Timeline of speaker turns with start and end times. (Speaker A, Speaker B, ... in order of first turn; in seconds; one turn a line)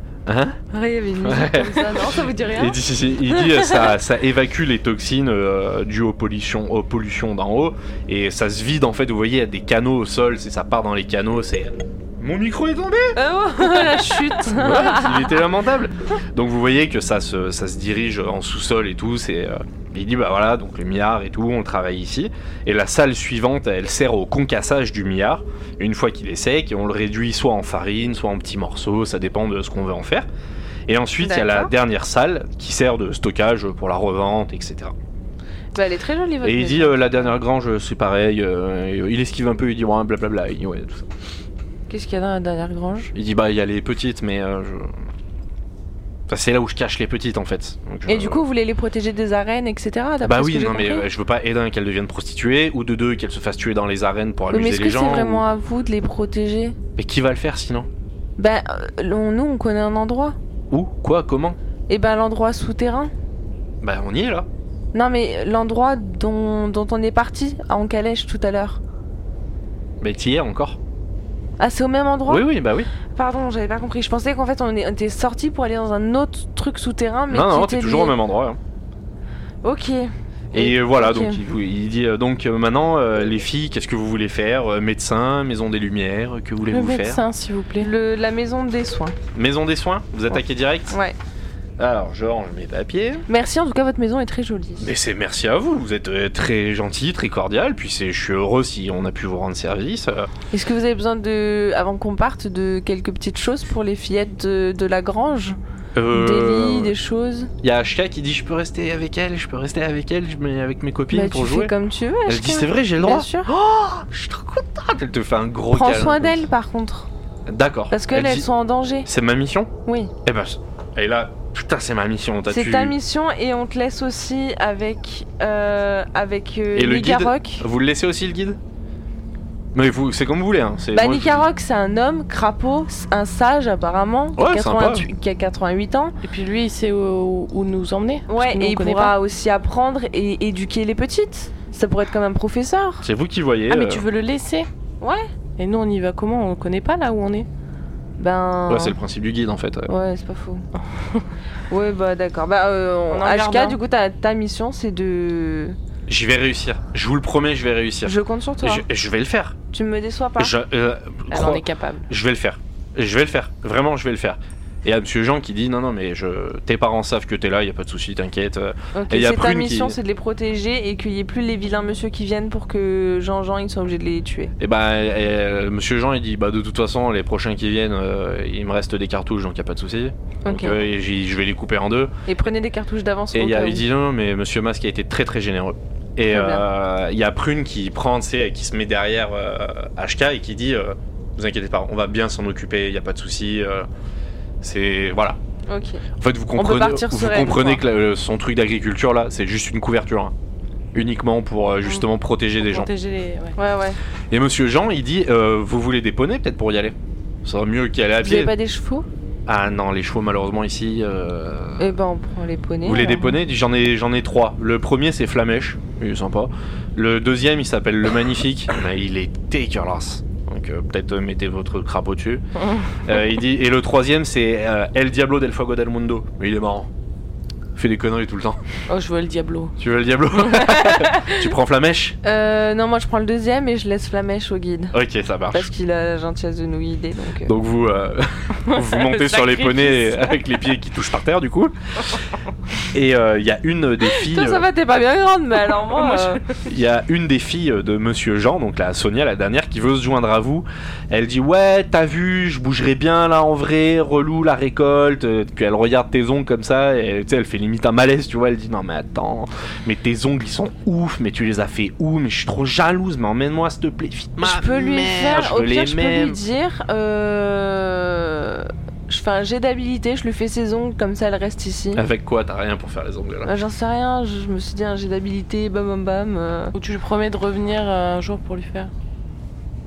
Speaker A: 0.2-0.6
Speaker B: 0.7-3.9
Speaker A: 1.2-13.2
Speaker B: 13.1-15.4
Speaker C: 13.7-14.2
Speaker A: 14.4-30.3
Speaker A: 30.9-34.9
Speaker B: 31.2-31.7
Speaker B: 35.7-37.3
Speaker A: 36.4-41.1
Speaker B: 41.9-43.1
Speaker A: 43.1-45.0
Speaker A: 46.3-48.4
Speaker B: 48.1-51.1
Speaker A: 50.2-55.4
Speaker B: 54.5-56.8
Speaker A: 57.0-57.9
Speaker B: 58.4-60.4
Speaker A: 60.7-61.6
Speaker B: 61.9-63.1
Speaker A: 63.8-64.5
Speaker B: 64.9-68.8
Speaker A: 70.0-70.8
Speaker B: 71.6-72.5
Speaker A: 72.3-72.9
Speaker B: 73.1-78.2
Speaker A: 77.3-78.6
Speaker B: 79.6-81.4
Speaker A: 80.5-87.2
Speaker C: 86.7-87.9
Speaker B: 87.8-89.2
Speaker A: 89.3-90.9
Speaker B: 90.9-91.2
Speaker A: 91.8-93.2
Speaker B: 93.3-94.9
Speaker A: 94.8-100.3
Speaker B: 100.5-105.6
Speaker A: 105.9-106.9
Speaker B: 106.1-107.5
Speaker A: 107.6-111.7
Speaker B: 111.1-113.5
Speaker A: 112.2-116.5
Speaker B: 115.7-117.1
Speaker A: 117.5-118.5
Speaker B: 117.9-119.1
Speaker A: 119.0-119.7
Speaker B: 119.8-120.1
Speaker A: 120.2-123.0
Speaker B: 122.5-127.6
Speaker A: 126.7-128.6
Speaker A: 129.7-131.4
Speaker B: 130.9-136.1
Speaker A: 134.3-135.1
Speaker C: 136.2-139.1
Speaker B: 138.3-143.1
Speaker A: 143.0-144.1
Speaker C: 143.7-144.7
Speaker B: 145.0-145.2
Speaker C: 145.6-147.5
Speaker B: 148.2-149.0
Speaker A: 148.7-149.9
Speaker B: 149.9-150.6
Speaker C: 151.0-151.3
Speaker B: 151.7-155.8
Speaker C: 153.1-153.8
Speaker A: 156.1-159.6
Speaker B: 158.0-158.8
Speaker B: 159.7-160.5
Speaker A: 160.4-169.9
Speaker C: 161.3-162.1
Speaker B: 168.9-174.5
Speaker A: 174.6-182.1
Speaker B: 180.4-180.8
Speaker B: 182.3-183.8
Speaker A: 183.3-193.9
Speaker B: 186.3-186.6
Speaker A: 194.6-195.4
Speaker B: 195.7-196.0
Speaker A: 196.2-200.3
Speaker B: 196.6-197.8
Speaker A: 200.9-202.9
Speaker C: 202.6-203.6
Speaker B: 203.6-204.0
Speaker A: 204.3-208.5
Speaker B: 208.2-209.1
Speaker A: 209.5-212.0
Speaker B: 211.8-213.3
Speaker A: 212.8-222.4
Speaker A: 223.0-226.9
Speaker A: 227.7-228.6
Speaker C: 228.9-229.8
Speaker A: 229.8-232.2
Speaker C: 230.5-231.5
Speaker B: 232.2-234.9
Speaker A: 234.9-235.7
Speaker B: 235.5-237.5
Speaker A: 237.4-242.2
Speaker C: 238.6-240.4
Speaker A: 242.9-244.7
Speaker B: 244.1-246.4
Speaker C: 246.0-246.3
Speaker A: 246.5-266.4
Speaker B: 264.4-272.0
Speaker A: 271.9-273.5
Speaker B: 273.4-276.7
Speaker C: 276.7-278.9